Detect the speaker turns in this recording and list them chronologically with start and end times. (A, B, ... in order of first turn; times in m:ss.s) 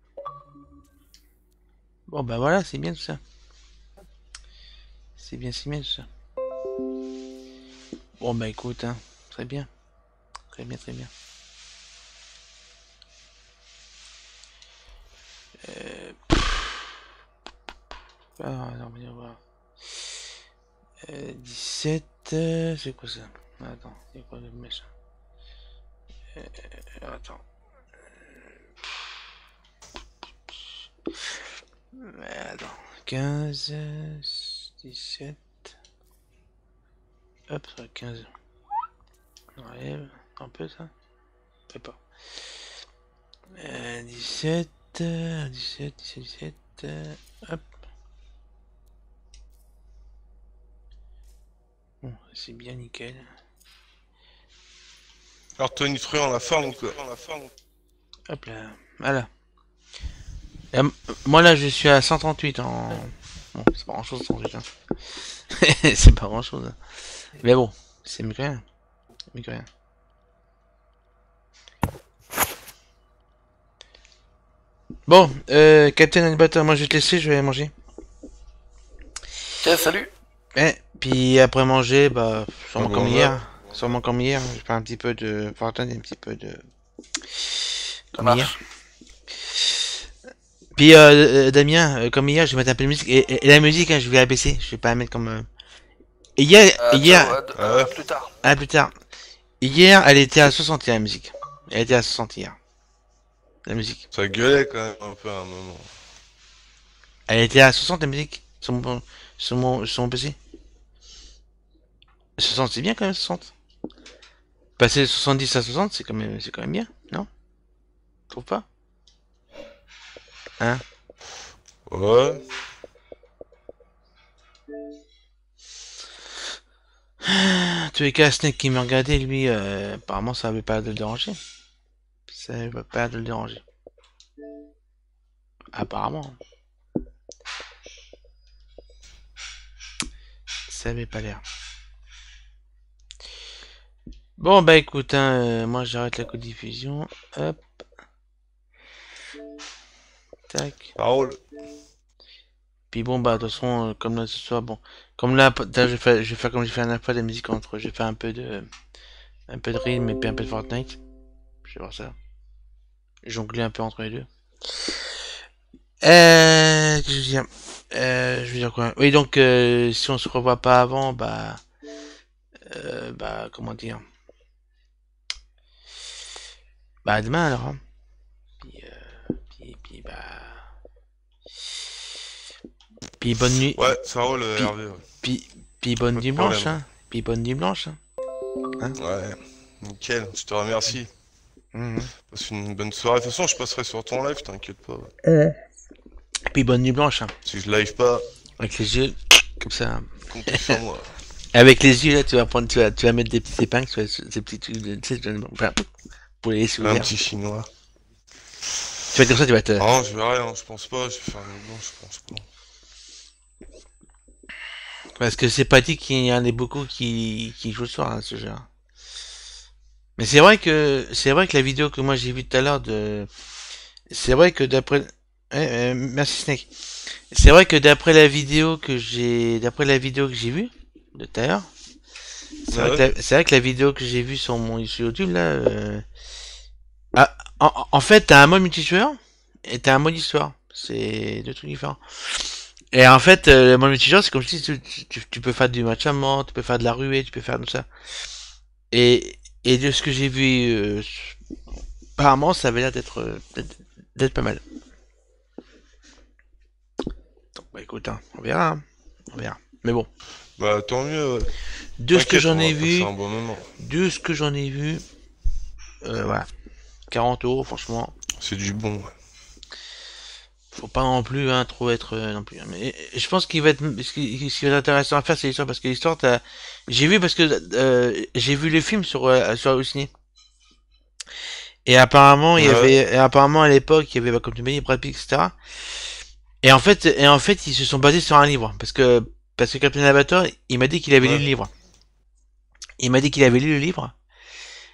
0:02.1-0:03.2 A
0:05.2-0:06.1 A
0:08.2-0:09.7 A
0:10.5-0:11.1 A
0:15.6-0:16.6 A
0:18.4-0:19.4 A
0:21.0-0:24.9 A
0:26.3-0:27.4 A
0:31.9-0:35.7 A
0:37.5-0:38.3 A
0:39.6-0:40.9 A
0:41.7-0:42.0 A
0:43.6-0:47.6 A
0:52.0-0:53.3 A
0:55.6-0:57.5 B
0:58.3-0:59.3 A
1:00.7-1:04.6 A
1:05.5-1:06.8 A
1:07.4-1:08.6 A
1:09.3-1:09.7 A
1:15.1-1:17.7 A
1:19.6-1:20.1 C
1:20.5-1:26.6 A
1:22.8-1:23.7 B
1:28.1-1:28.6 A
1:28.2-1:28.5 C
1:30.8-1:35.5 A
1:36.4-1:37.4 A
1:36.8-1:38.3 C
1:37.6-1:37.9 B
1:38.4-1:38.9 A
1:39.6-1:42.6 A
1:43.6-1:44.0 A
1:44.1-1:45.9 B
1:47.3-1:50.4 A
1:52.4-1:53.5 A
1:54.8-1:57.3 A
1:58.3-1:58.6 A
2:01.9-2:02.4 B
2:07.2-2:11.4 A
2:12.3-2:13.6 A
2:15.7-2:16.4 A
2:20.7-2:21.4 A
2:24.4-2:27.6 A
2:30.5-2:30.9 A
2:31.0-2:31.4 B
2:32.9-2:38.7 A
2:39.5-2:41.0 A
2:41.6-2:42.2 A
2:43.2-2:44.3 A
2:46.0-2:51.6 A
2:52.6-2:54.0 A
2:57.0-2:57.8 A
2:58.6-3:00.7 A
3:03.2-3:04.0 A
3:03.7-3:05.0 B
3:04.6-3:08.0 A
3:06.1-3:06.8 B
3:09.0-3:11.1 B
3:11.7-3:12.1 A
3:12.3-3:15.1 B
3:15.2-3:15.6 A
3:16.5-3:17.3 A
3:17.4-3:18.2 B
3:18.6-3:20.8 A
3:20.3-3:21.1 B
3:21.5-3:25.8 A
3:26.4-3:27.1 A
3:26.8-3:27.7 B
3:29.1-3:29.8 A
3:29.8-3:32.4 B
3:35.2-3:38.7 A
3:40.2-3:43.3 A
3:44.1-3:46.7 A
3:47.3-3:51.7 A
3:52.7-3:56.0 A
3:52.7-3:53.0 B
3:57.1-4:07.8 A
4:08.9-4:11.4 A
4:12.2-4:14.6 A
4:17.5-4:20.1 A
4:20.6-4:21.5 B
4:22.0-4:23.1 A
4:22.1-4:23.7 B
4:23.8-4:25.0 A
4:26.0-4:26.5 A
4:27.1-4:28.1 A
4:28.4-4:29.1 B
4:30.7-4:40.1 A
4:41.8-4:45.5 A
4:42.6-4:43.0 B
4:46.6-4:51.7 A
4:51.2-4:51.4 B
4:53.0-4:54.1 A